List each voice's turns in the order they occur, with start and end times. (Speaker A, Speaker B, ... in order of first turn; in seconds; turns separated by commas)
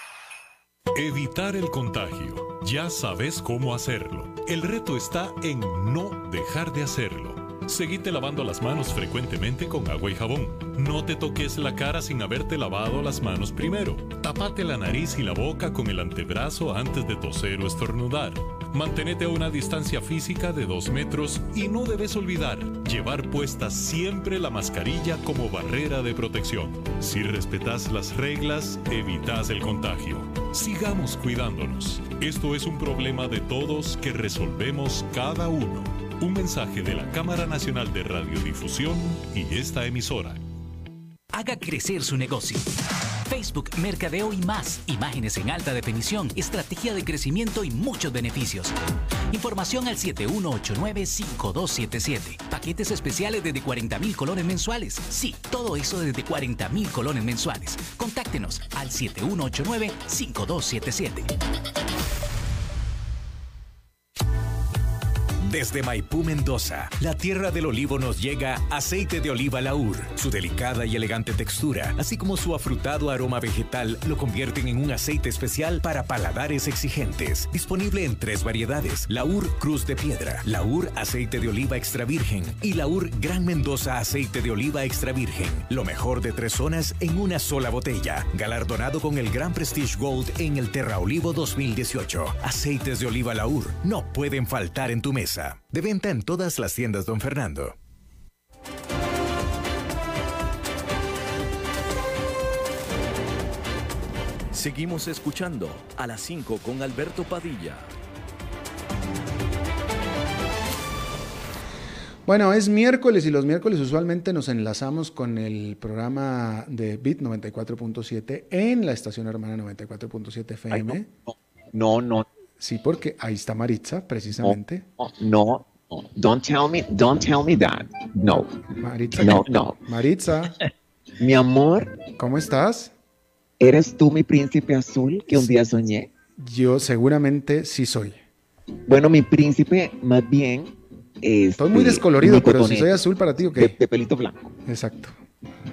Speaker A: 0.9-40.4, Speaker B: 41.3-42.7, Speaker B: 43.3-48.7, Speaker B: 49.3-61.3, Speaker C: 65.4-97.8, Speaker D: 104.5-107.9, Speaker E: 112.3-121.1, Speaker F: 120.7-122.3, Speaker E: 122.6-124.8, Speaker F: 124.4-128.5, Speaker E: 128.8-130.6, Speaker F: 129.2-129.8, Speaker F: 131.2-132.0, Speaker E: 132.2-132.9, Speaker F: 133.6-136.1, Speaker E: 135.3-135.6, Speaker E: 136.4-138.2, Speaker F: 138.9-143.0, Speaker E: 141.6-143.8, Speaker F: 143.5-144.5, Speaker E: 144.7-145.2